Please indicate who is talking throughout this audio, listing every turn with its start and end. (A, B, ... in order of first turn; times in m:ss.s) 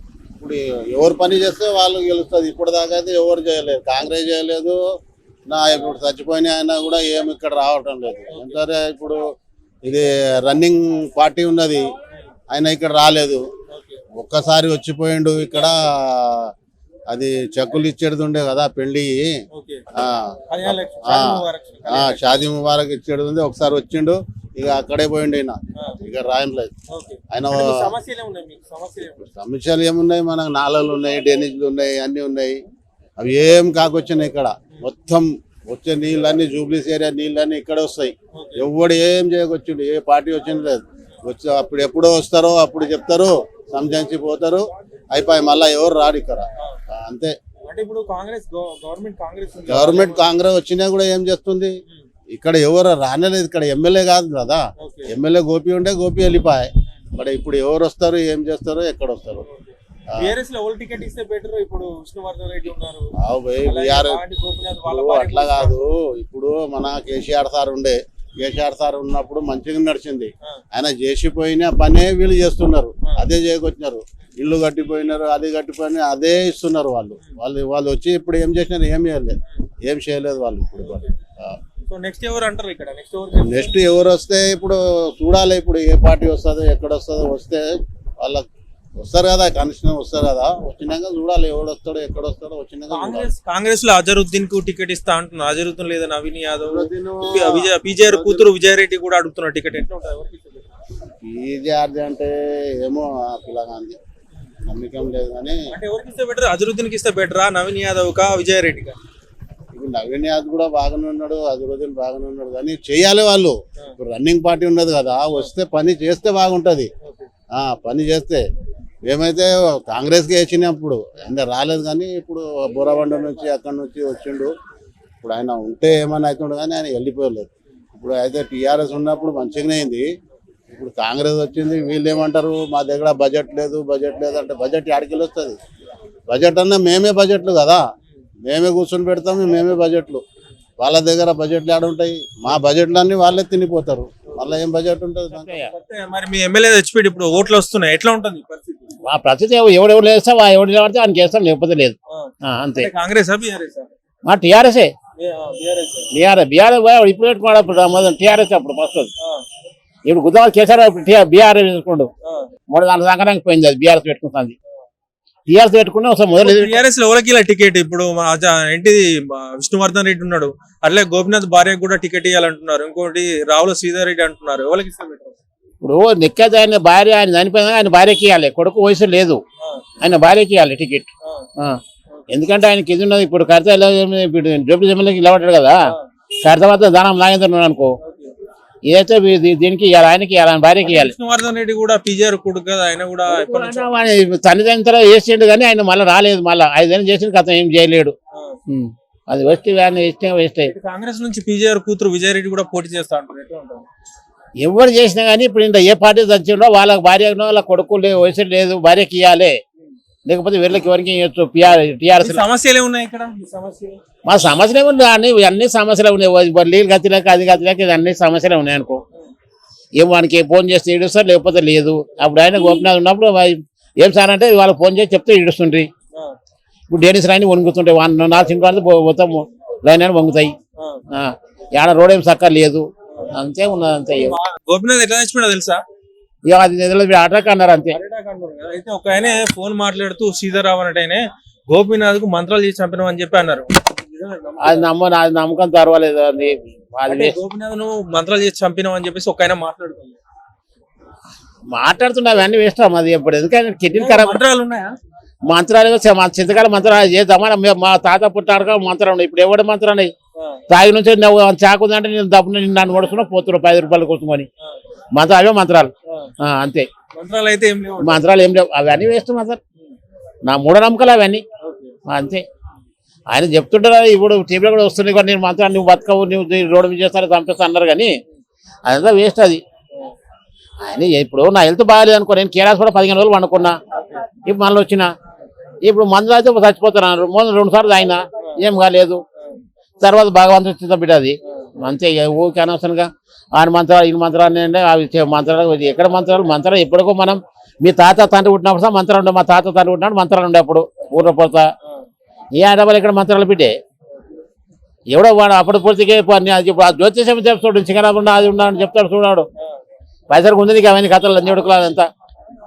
0:00.4-0:04.8 A
0:05.5-0:09.2 A
0:08.3-0:08.6 B
0:09.8-0:11.9 A
0:12.5-0:13.4 A
0:13.7-0:14.0 B
0:14.2-0:16.5 A
0:17.1-0:19.3 A
0:19.5-0:19.8 B
0:19.9-0:26.7 A
0:20.5-0:22.2 B
0:26.9-0:29.3 B
0:27.3-0:27.9 A
0:29.2-0:32.6 A
0:33.2-0:47.3 A
0:38.3-0:38.6 B
0:47.6-0:50.3 B
0:49.7-0:51.8 A
0:52.3-0:59.4 A
0:54.8-0:55.1 B
0:59.4-1:03.1 B
1:03.2-1:04.2 A
1:03.6-1:05.7 B
1:04.8-1:21.6 A
1:20.8-1:21.2 B
1:21.8-1:23.7 B
1:23.3-1:28.4 A
1:29.0-1:33.3 A
1:32.9-1:40.7 B
1:36.6-1:38.5 A
1:41.2-1:44.0 A
1:44.7-1:45.6 A
1:45.7-1:49.0 B
1:49.7-1:56.9 A
1:57.0-1:57.3 B
1:57.6-1:58.4 A
1:59.0-2:04.5 A
2:05.2-2:10.0 A
2:10.7-2:15.6 A
2:16.3-2:17.8 A
2:18.4-2:20.2 A
2:20.8-2:25.5 A
2:25.3-2:25.7 C
2:25.6-2:29.0 B
2:29.0-2:32.9 C
2:32.1-2:33.9 B
2:34.2-2:34.9 C
2:35.2-2:36.1 B
2:36.1-2:39.1 C
2:39.2-2:39.4 B
2:40.0-2:42.1 C
2:42.2-2:42.5 B
2:42.7-2:44.5 C
2:45.5-2:46.8 C
2:46.4-2:55.4 B
2:55.8-2:59.4 C
3:00.0-3:01.8 C
3:02.3-3:05.9 C
3:06.4-3:07.9 C
3:08.0-3:08.3 B
3:08.9-3:11.1 C
3:10.8-3:13.9 B
3:13.3-3:18.1 C
3:18.3-3:18.6 B
3:18.7-3:20.7 C
3:20.7-3:23.8 B
3:24.6-3:29.6 C
3:30.2-3:32.4 C
3:32.2-3:34.0 B
3:34.2-3:39.0 C
3:40.0-3:45.9 C
3:46.9-3:50.5 C
3:50.8-3:51.0 B
3:51.1-3:54.4 C
3:54.1-3:55.8 B
3:56.4-3:58.0 C
3:57.9-4:04.9 B
4:04.6-4:07.3 C
4:07.1-4:10.2 B
4:11.7-4:14.4 C
4:13.9-4:14.9 B
4:15.5-4:20.1 C
4:20.4-4:20.6 B
4:20.7-4:24.5 C
4:25.1-4:26.9 C
4:26.1-4:26.3 B
4:27.1-4:28.3 B
4:28.0-4:29.6 C
4:30.5-4:31.4 C
4:31.6-4:32.0 B
4:32.1-4:32.4 C
4:33.3-4:38.1 C
4:38.8-4:39.6 C
4:40.8-4:43.8 C
4:44.0-4:44.3 B
4:44.4-4:45.1 C
4:45.8-4:49.2 C
4:50.0-5:01.7 C
5:02.6-5:03.7 C
5:05.1-5:09.5 C
5:10.3-5:12.1 C